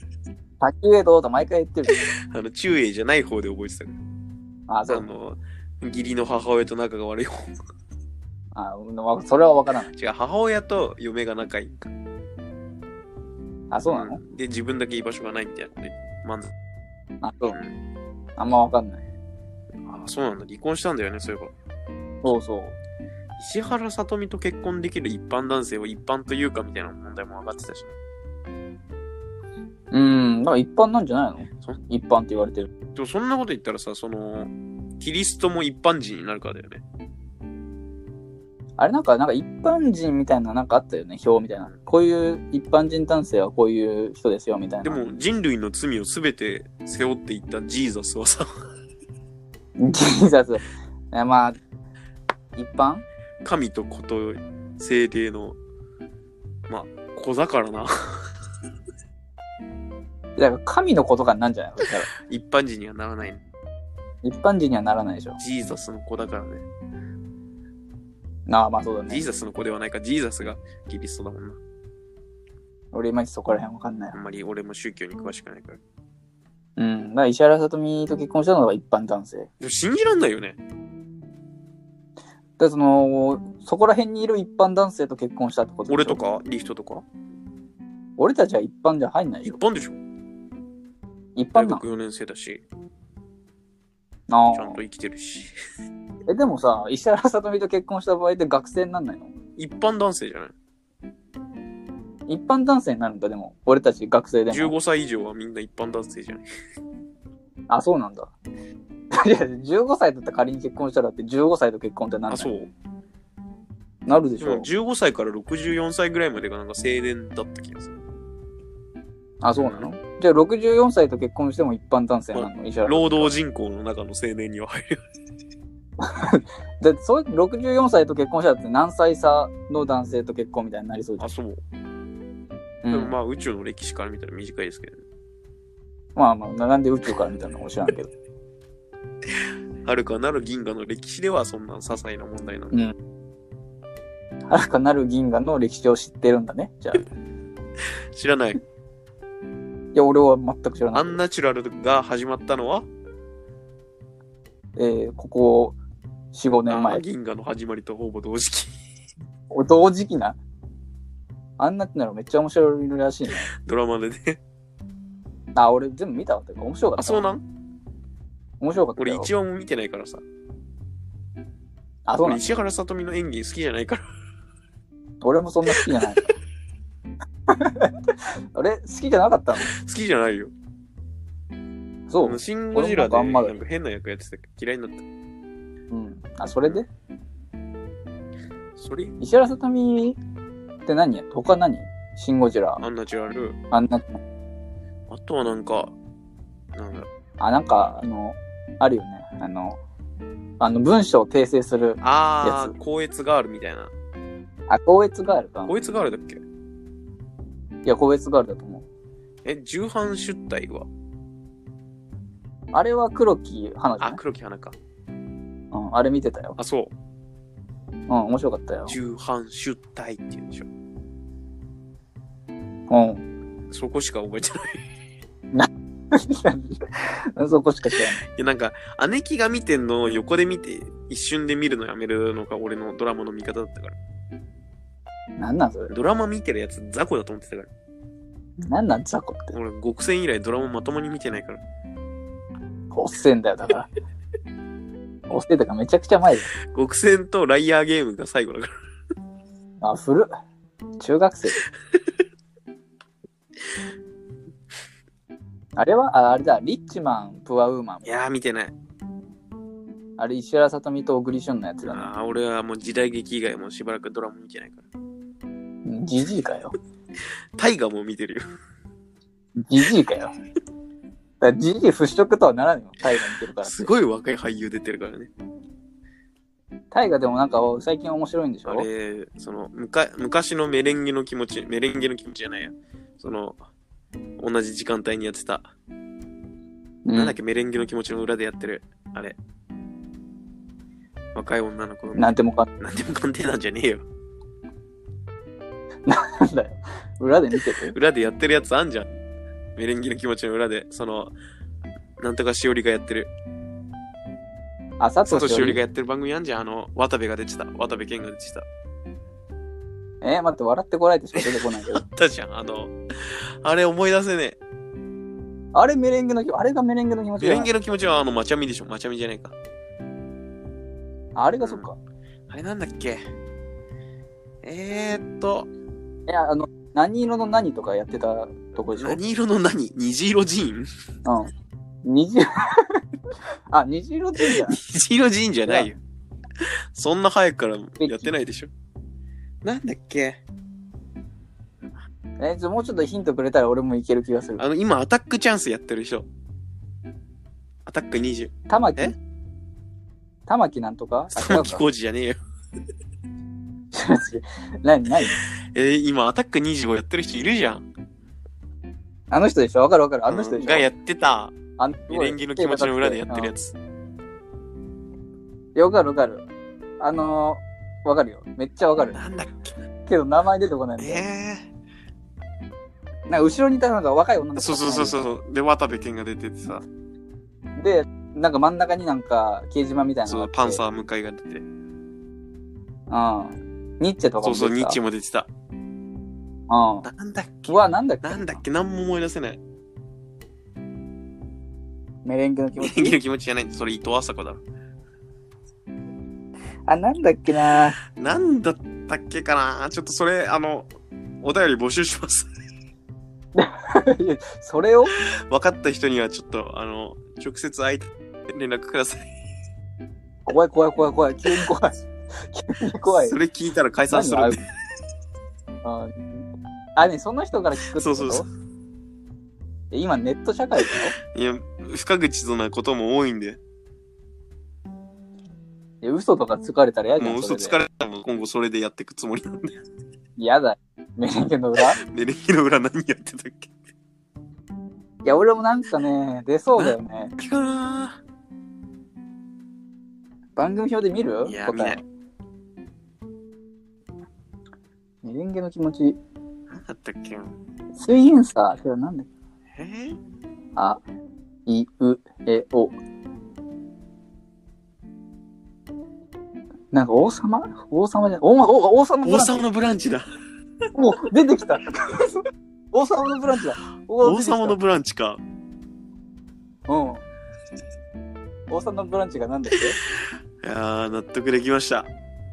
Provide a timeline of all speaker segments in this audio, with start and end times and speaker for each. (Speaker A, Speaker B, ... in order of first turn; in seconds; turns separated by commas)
Speaker A: 0.6-2.0, Speaker B: 2.3-4.0, Speaker A: 4.7-5.0, Speaker B: 4.9-7.5, Speaker A: 8.5-9.9, Speaker B: 9.9-11.9, Speaker A: 13.7-14.2, Speaker B: 13.8-16.5, Speaker A: 17.2-17.6, Speaker B: 17.5-17.7, Speaker A: 18.4-19.0, Speaker B: 19.9-21.5, Speaker A: 22.2-22.8, Speaker B: 23.4-27.9, Speaker A: 29.9-32.7, Speaker B: 32.9-36.8, Speaker A: 38.8-45.0, Speaker B: 44.8-48.5, Speaker A: 49.8-51.6, Speaker A: 52.5-53.0, Speaker B: 53.4-55.6, Speaker B: 56.7-58.3, Speaker A: 60.4-62.1, Speaker B: 62.3-63.4, Speaker A: 64.2-65.4, Speaker B: 65.4-66.6, Speaker A: 68.5-69.3, Speaker B: 69.1-71.6, Speaker A: 72.9-74.2, Speaker B: 74.1-75.8, Speaker A: 76.8-79.5, Speaker B: 79.6-80.6, Speaker A: 82.6-86.2, Speaker B: 85.9-87.0, Speaker A: 88.2-89.6, Speaker B: 89.4-90.0, Speaker A: 91.3-91.8, Speaker B: 91.5-92.6, Speaker A: 94.3-94.8, Speaker B: 94.5-95.5, Speaker A: 96.3-99.3, Speaker B: 99.6-100.5, Speaker A: 102.3-104.7, Speaker B: 104.5-106.5, Speaker A: 107.7-108.3, Speaker A: 109.2-112.5, Speaker B: 112.3-112.7, Speaker A: 114.0-114.7, Speaker B: 114.4-117.9, Speaker A: 119.4-123.3, Speaker B: 119.5-119.9, Speaker B: 122.3-125.0, Speaker A: 126.0-131.2, Speaker B: 131.2-131.6, Speaker A: 132.8-133.2, Speaker B: 132.9-135.0, Speaker A: 136.2-138.1, Speaker B: 139.8-142.7, Speaker A: 144.5-147.1, Speaker B: 148.1-148.6, Speaker A: 149.9-151.2, Speaker B: 150.9-152.9, Speaker A: 154.8-155.8, Speaker A: 156.3-157.0, Speaker B: 156.7-158.7, Speaker A: 159.5-160.4, Speaker A: 161.6-163.5, Speaker B: 163.6-164.4, Speaker A: 165.5-167.2, Speaker B: 167.0-167.4, Speaker A: 168.6-169.3, Speaker B: 169.0-170.2, Speaker A: 172.1-172.4, Speaker B: 172.2-174.0, Speaker A: 175.2-176.3, Speaker B: 175.8-176.3, Speaker A: 177.5-177.9, Speaker A: 178.5-179.7, Speaker B: 179.6-180.5, Speaker A: 182.1-183.6, Speaker B: 182.2-185.0, Speaker A: 185.9-186.8, Speaker B: 188.8-189.2, Speaker A: 189.2-190.2, Speaker A: 190.8-192.8, Speaker B: 192.8-193.6, Speaker A: 193.7-194.2, Speaker B: 195.1-195.9, Speaker B: 196.8-197.1, Speaker A: 197.4-199.8, Speaker B: 197.7-198.0, Speaker A: 200.6-202.7, Speaker B: 202.0-203.9, Speaker A: 204.7-205.7, Speaker B: 205.6-206.4, Speaker A: 207.8-208.9, Speaker B: 209.4-210.9, Speaker A: 212.7-214.2, Speaker B: 214.0-214.8, Speaker A: 215.7-216.6, Speaker B: 216.6-216.9, Speaker A: 218.1-218.9, Speaker B: 218.8-220.7, Speaker A: 222.9-223.2, Speaker B: 223.7-224.8, Speaker A: 225.5-228.2, Speaker B: 228.3-233.9, Speaker A: 235.4-235.9, Speaker B: 235.9-237.7, Speaker A: 238.6-239.5, Speaker B: 239.5-241.6, Speaker A: 242.9-243.9, Speaker A: 245.3-246.5, Speaker B: 246.7-248.7, Speaker A: 249.8-250.3, Speaker A: 251.0-251.6, Speaker A: 255.8-258.1, Speaker B: 258.0-258.7, Speaker A: 260.2-262.1, Speaker B: 261.8-264.9, Speaker A: 265.8-266.7, Speaker B: 267.6-268.5, Speaker A: 269.6-270.3, Speaker A: 271.4-273.9, Speaker B: 273.6-275.3, Speaker A: 276.9-278.9, Speaker B: 278.6-283.6, Speaker B: 284.4-285.7, Speaker A: 287.1-287.4, Speaker B: 287.1-289.4, Speaker B: 291.3-294.1, Speaker A: 292.1-292.7, Speaker A: 296.1-297.9, Speaker B: 297.9-299.1, Speaker B: 299.8-301.3, Speaker B: 302.2-303.3, Speaker A: 305.0-305.8, Speaker B: 305.2-308.6, Speaker A: 310.2-312.0, Speaker B: 311.4-312.9, Speaker B: 313.6-314.6, Speaker A: 315.7-317.7, Speaker B: 317.4-319.5, Speaker A: 321.4-322.0, Speaker B: 321.6-321.9, Speaker B: 322.5-323.2, Speaker B: 324.6-325.7, Speaker A: 326.3-329.2, Speaker B: 329.0-330.9, Speaker A: 331.2-331.5, Speaker A: 332.0-333.0, Speaker A: 333.7-334.8, Speaker B: 334.4-336.0, Speaker B: 336.9-338.7, Speaker A: 338.0-338.3, Speaker B: 339.6-340.4, Speaker A: 342.4-344.6, Speaker B: 344.6-346.3, Speaker B: 347.9-349.1, Speaker A: 348.7-349.1, Speaker A: 350.5-351.8, Speaker B: 351.3-352.4, Speaker A: 353.9-355.4, Speaker B: 355.7-357.9, Speaker A: 359.3-360.9, Speaker B: 360.3-361.5, Speaker A: 361.8-363.5, Speaker B: 362.1-363.7, Speaker A: 365.7-366.4, Speaker A: 367.0-369.2, Speaker B: 369.1-369.8, Speaker A: 370.1-371.2, Speaker B: 371.0-371.7, Speaker A: 373.3-375.2, Speaker B: 374.6-376.8, Speaker A: 377.8-380.8, Speaker B: 380.2-381.6, Speaker A: 383.1-385.0, Speaker B: 384.4-385.5, Speaker A: 386.7-387.1, Speaker B: 387.0-389.6, Speaker A: 387.7-388.6, Speaker A: 392.2-393.2, Speaker B: 392.8-394.6, Speaker A: 396.9-398.0, Speaker B: 398.0-400.9, Speaker B: 401.4-402.5, Speaker A: 403.5-405.1, Speaker B: 405.5-409.3, Speaker A: 410.4-413.4, Speaker B: 413.1-414.6, Speaker A: 414.1-414.6, Speaker A: 415.8-418.4, Speaker B: 417.9-418.4, Speaker A: 419.9-421.1, Speaker B: 420.8-423.6, Speaker A: 426.0-427.8, Speaker B: 427.1-429.7, Speaker A: 430.4-432.0, Speaker B: 432.0-433.7, Speaker A: 435.2-437.3, Speaker B: 436.8-438.2, Speaker A: 440.6-442.0, Speaker B: 441.4-442.0, Speaker A: 445.2-446.2, Speaker B: 446.7-447.6, Speaker A: 447.9-449.3, Speaker B: 449.7-450.2, Speaker A: 450.8-451.0, Speaker A: 451.6-452.9, Speaker A: 456.9-459.7, Speaker B: 459.2-460.3, Speaker A: 460.9-464.8, Speaker B: 464.2-465.4, Speaker A: 466.9-467.2, Speaker A: 468.7-470.0, Speaker B: 470.6-472.1